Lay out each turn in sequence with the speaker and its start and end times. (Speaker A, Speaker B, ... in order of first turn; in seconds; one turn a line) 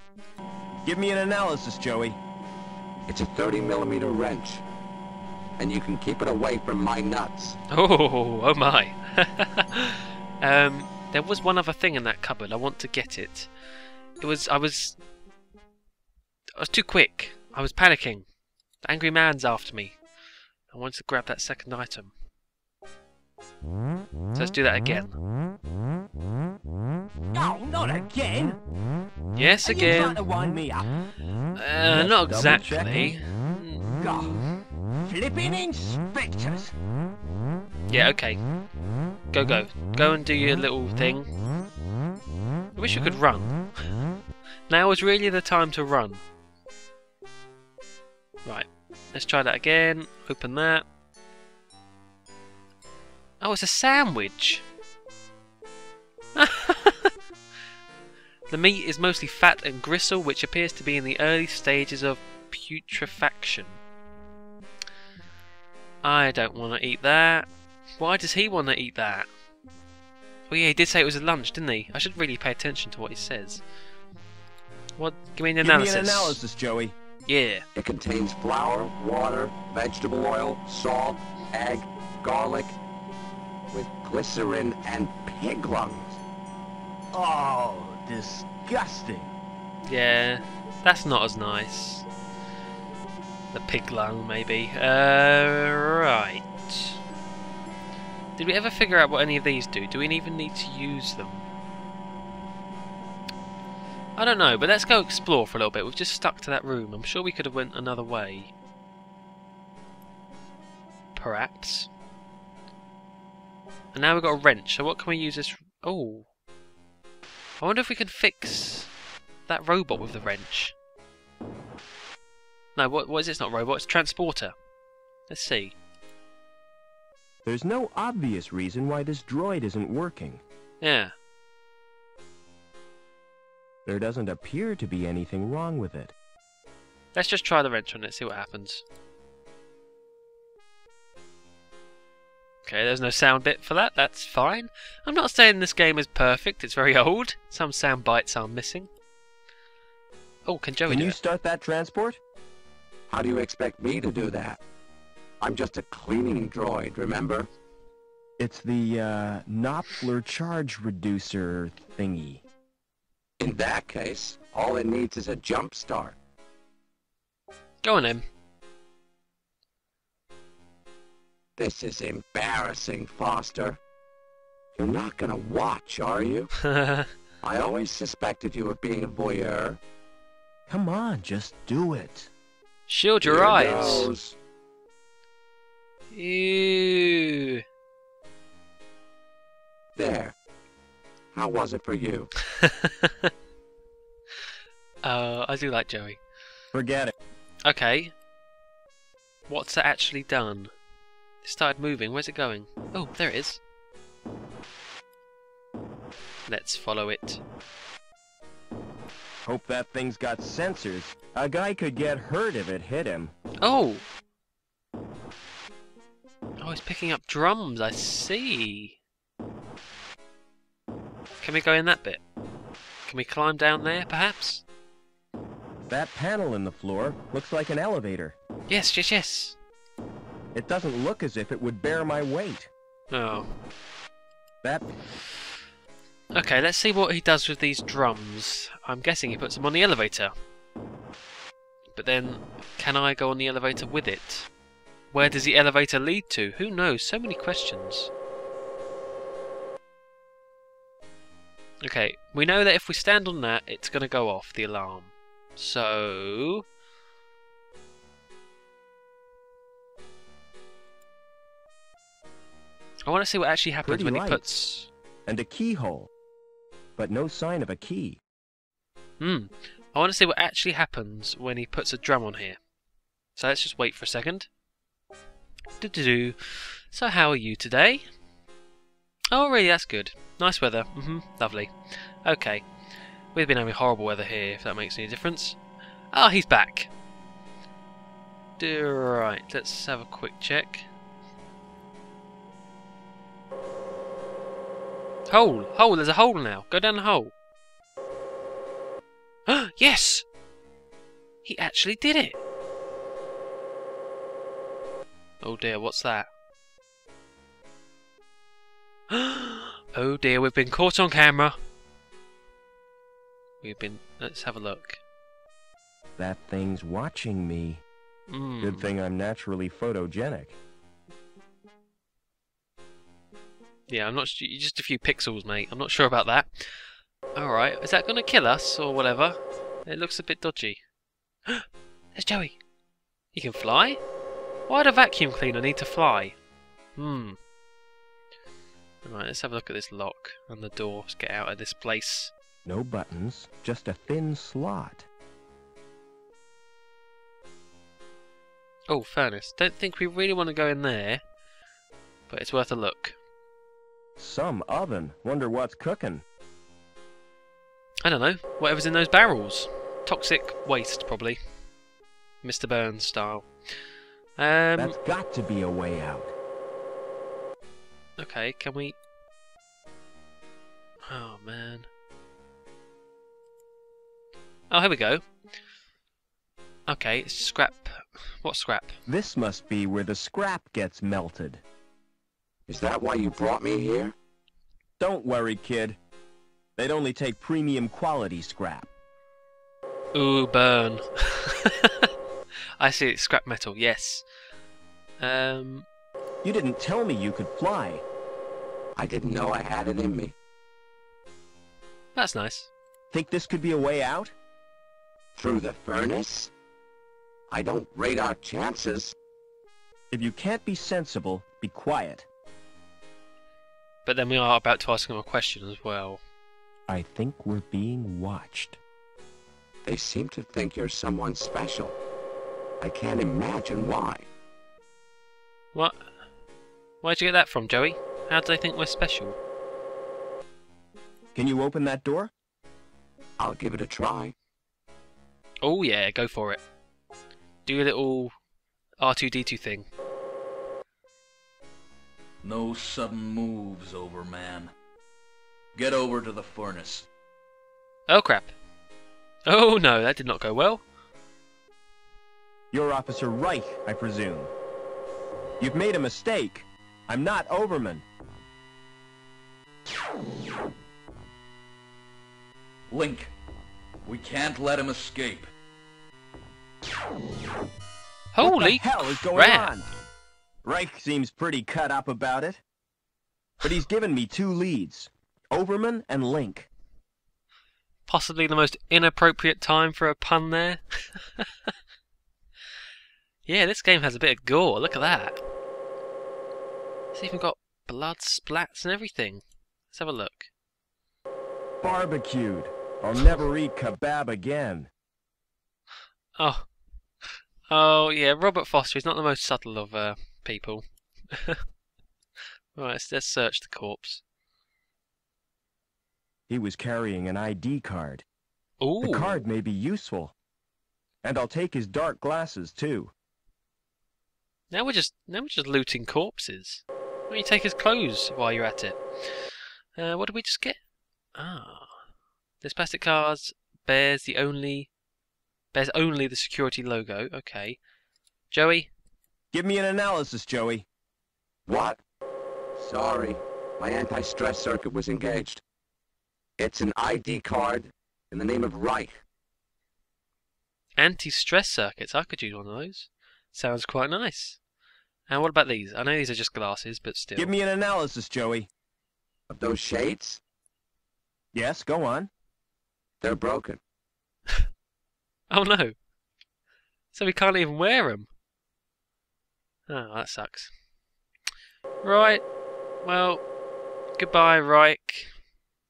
Speaker A: 0.8-2.2
Speaker B: 3.1-4.6
Speaker B: 5.6-7.6
Speaker C: 7.7-13.5
Speaker C: 14.2-15.0
Speaker C: 16.6-18.2
Speaker C: 18.8-20.0
Speaker C: 20.7-22.1
Speaker C: 24.3-25.2
Speaker D: 27.3-28.6
Speaker C: 29.3-30.2
Speaker D: 29.6-30.9
Speaker C: 31.6-34.3
Speaker A: 31.9-33.1
Speaker D: 34.0-34.4
Speaker D: 35.0-36.7
Speaker C: 37.9-38.4
Speaker C: 39.3-41.3
Speaker C: 42.8-43.9
Speaker C: 44.7-46.2
Speaker C: 48.4-50.8
Speaker C: 53.4-54.6
Speaker C: 56.4-57.1
Speaker C: 58.5-63.8
Speaker C: 66.0-69.3
Speaker C: 70.5-73.6
Speaker C: 75.0-76.4
Speaker A: 75.6-76.9
Speaker C: 77.3-77.6
Speaker B: 77.7-82.8
Speaker B: 83.7-86.2
Speaker A: 87.1-89.3
Speaker C: 89.8-92.0
Speaker C: 93.5-97.0
Speaker C: 98.4-101.4
Speaker C: 104.2-108.5
Speaker C: 111.1-111.9
Speaker C: 113.9-116.3
Speaker C: 117.6-118.9
Speaker C: 119.5-120.7
Speaker C: 122.8-124.5
Speaker C: 125.3-125.7
Speaker A: 127.4-130.4
Speaker C: 130.8-131.1
Speaker A: 133.8-136.1
Speaker C: 137.1-138.8
Speaker C: 142.6-148.9
Speaker C: 150.4-151.2
Speaker A: 150.9-152.2
Speaker B: 153.1-154.6
Speaker B: 155.4-157.5
Speaker A: 158.4-162.4
Speaker B: 163.4-166.2
Speaker C: 167.8-168.2
Speaker B: 171.6-173.8
Speaker B: 174.8-176.5
Speaker C: 176.7-177.1
Speaker B: 177.4-179.8
Speaker A: 180.7-182.3
Speaker C: 182.9-184.1
Speaker B: 183.2-184.3
Speaker C: 186.1-187.6
Speaker B: 189.9-190.3
Speaker B: 191.3-192.3
Speaker C: 192.6-193.3
Speaker C: 195.0-196.2
Speaker A: 196.7-197.1
Speaker C: 197.7-198.1
Speaker C: 199.5-200.7
Speaker C: 201.4-203.6
Speaker C: 206.5-207.4
Speaker A: 209.4-213.3
Speaker C: 213.6-214.0
Speaker C: 216.6-219.0
Speaker C: 221.4-222.2
Speaker C: 223.1-224.6
Speaker A: 225.9-228.3
Speaker C: 228.7-229.6
Speaker A: 230.5-232.7
Speaker C: 233.1-233.4
Speaker A: 234.6-234.9
Speaker C: 236.3-240.3
Speaker C: 241.9-244.5
Speaker C: 245.1-248.1
Speaker C: 251.8-256.6
Speaker C: 263.1-264.9
Speaker A: 263.8-264.5
Speaker A: 265.2-266.1
Speaker A: 267.0-268.2
Speaker C: 269.2-272.6
Speaker C: 273.4-274.5
Speaker C: 275.8-278.0
Speaker C: 279.3-282.7
Speaker C: 283.3-285.6
Speaker C: 286.1-286.9
Speaker C: 288.6-290.9
Speaker C: 295.3-297.3
Speaker C: 299.5-300.2
Speaker C: 301.4-302.4
Speaker C: 305.4-306.3
Speaker C: 309.1-311.5
Speaker C: 313.6-315.0
Speaker A: 316.2-317.8
Speaker C: 318.3-318.9
Speaker A: 318.6-320.6
Speaker C: 323.9-330.8
Speaker C: 331.5-332.6
Speaker C: 333.3-334.0
Speaker C: 334.7-336.3
Speaker C: 337.0-337.4
Speaker C: 339.0-342.3
Speaker A: 342.6-345.1
Speaker C: 348.9-351.2
Speaker C: 352.3-353.1
Speaker A: 354.2-356.2
Speaker C: 358.0-361.4
Speaker C: 362.4-363.5
Speaker C: 364.4-364.9
Speaker A: 364.8-366.3
Speaker C: 368.2-369.0
Speaker C: 371.1-371.9
Speaker C: 374.7-375.2
Speaker C: 376.9-378.9
Speaker A: 379.1-381.6
Speaker B: 382.7-384.1
Speaker A: 385.0-386.0
Speaker A: 386.8-388.9
Speaker C: 390.1-392.1
Speaker C: 392.8-394.2
Speaker C: 395.2-395.9
Speaker A: 396.4-398.0
Speaker B: 399.0-400.3
Speaker C: 402.1-402.7
Speaker A: 403.1-404.3
Speaker B: 405.4-406.5
Speaker B: 407.5-409.1
Speaker A: 410.1-412.3
Speaker C: 414.0-416.2
Speaker A: 416.9-418.8
Speaker B: 419.9-422.0
Speaker B: 422.8-424.3
Speaker C: 427.0-429.4
Speaker A: 431.3-432.3
Speaker B: 433.4-434.3
Speaker C: 435.6-436.6
Speaker C: 437.6-438.3
Speaker C: 439.0-439.9
Speaker E: 442.4-444.7
Speaker E: 445.7-447.1
Speaker C: 448.1-448.5
Speaker C: 449.5-450.8
Speaker A: 452.7-454.5
Speaker A: 455.6-458.0
Speaker E: 462.9-463.3
Speaker E: 464.1-465.5
Speaker C: 468.3-469.7
Speaker A: 468.4-470.0
Speaker A: 470.6-472.6
Speaker A: 473.6-476.7
Speaker C: 478.1-481.7
Speaker C: 483.4-485.4
Speaker C: 487.1-490.5
Speaker A: 491.8-494.9
Speaker C: 496.4-496.7
Speaker C: 497.2-501.6
Speaker C: 502.7-504.2
Speaker A: 506.5-508.2
Speaker C: 508.8-509.4
Speaker A: 509.0-510.3
Speaker A: 511.2-513.1
Speaker C: 514.7-520.8
Speaker C: 521.4-522.0
Speaker C: 522.6-524.9
Speaker C: 525.7-527.8
Speaker C: 528.5-528.9
Speaker A: 529.5-530.9
Speaker B: 531.7-532.0
Speaker B: 532.8-535.6
Speaker B: 536.6-539.2
Speaker C: 541.0-544.6
Speaker C: 545.3-547.5
Speaker A: 547.4-548.7
Speaker B: 549.5-550.4
Speaker A: 551.5-552.3
Speaker B: 553.2-553.8
Speaker C: 555.5-555.9
Speaker C: 557.1-558.3
Speaker C: 559.9-560.7
Speaker C: 562.0-562.4
Speaker C: 563.0-563.4
Speaker C: 564.2-565.3